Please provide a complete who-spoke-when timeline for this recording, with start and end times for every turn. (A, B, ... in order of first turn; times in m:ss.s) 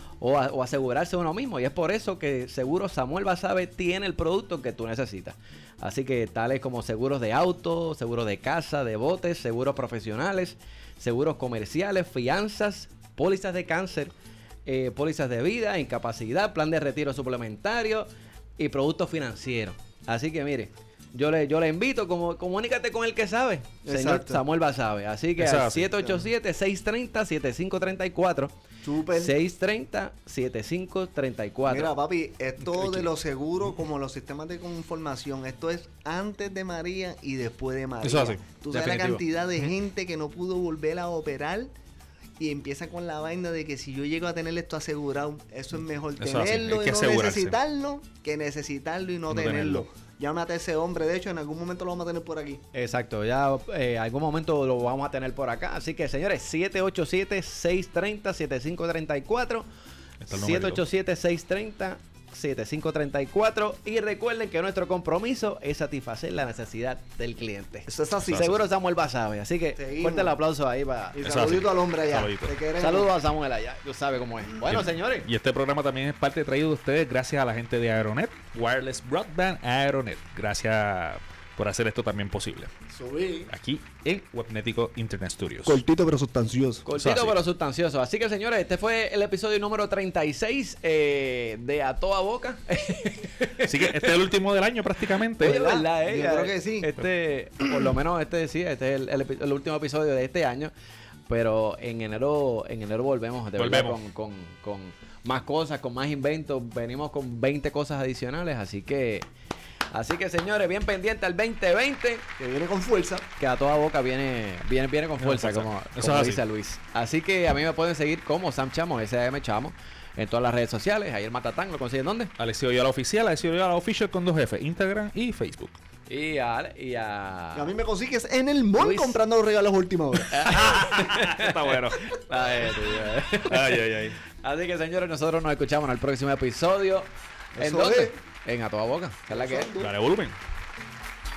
0:00.2-0:14.1 A
0:14.6-0:28.5 A
0:23.8-0:24.4 B
0:25.4-0:26.0 C
0:26.0-0:26.3 B
0:28.8-0:29.4 B
0:29.1-0:31.9 A
0:31.7-0:41.7 B
0:32.7-0:33.1 C
0:38.0-0:38.4 C
0:38.7-0:39.2 A
0:42.4-0:52.6 B
0:46.2-0:47.6 C
0:49.3-0:49.9 C
0:52.7-0:59.7 A
1:00.2-1:00.8 C
1:00.3-1:11.2 A
1:07.9-1:08.4 B
1:08.2-1:08.6 C
1:09.8-1:10.4 B
1:11.1-1:13.1 B
1:11.2-1:12.5 C
1:12.8-1:15.3 A
1:14.7-1:22.7 C
1:22.9-1:23.5 B
1:23.5-1:25.8 C
1:25.6-1:26.8 B
1:26.8-1:34.1 A
1:27.0-1:27.4 C
1:33.6-1:35.6 C
1:35.4-1:36.9 B
1:35.4-1:40.7 A
1:41.3-1:49.3 A
1:43.6-1:44.0 C
1:49.9-1:52.3 A
1:52.4-1:53.3 B
1:53.4-2:02.3 A
1:55.2-1:56.4 C
2:02.4-2:05.8 C
2:06.1-2:07.7 A
2:07.5-2:10.5 B
2:08.8-2:09.2 A
2:10.3-2:13.8 A
2:10.5-2:12.1 C
2:13.4-2:14.2 C
2:14.4-2:19.7 A
2:17.6-2:18.2 B
2:19.3-2:19.9 B
2:19.8-2:20.4 C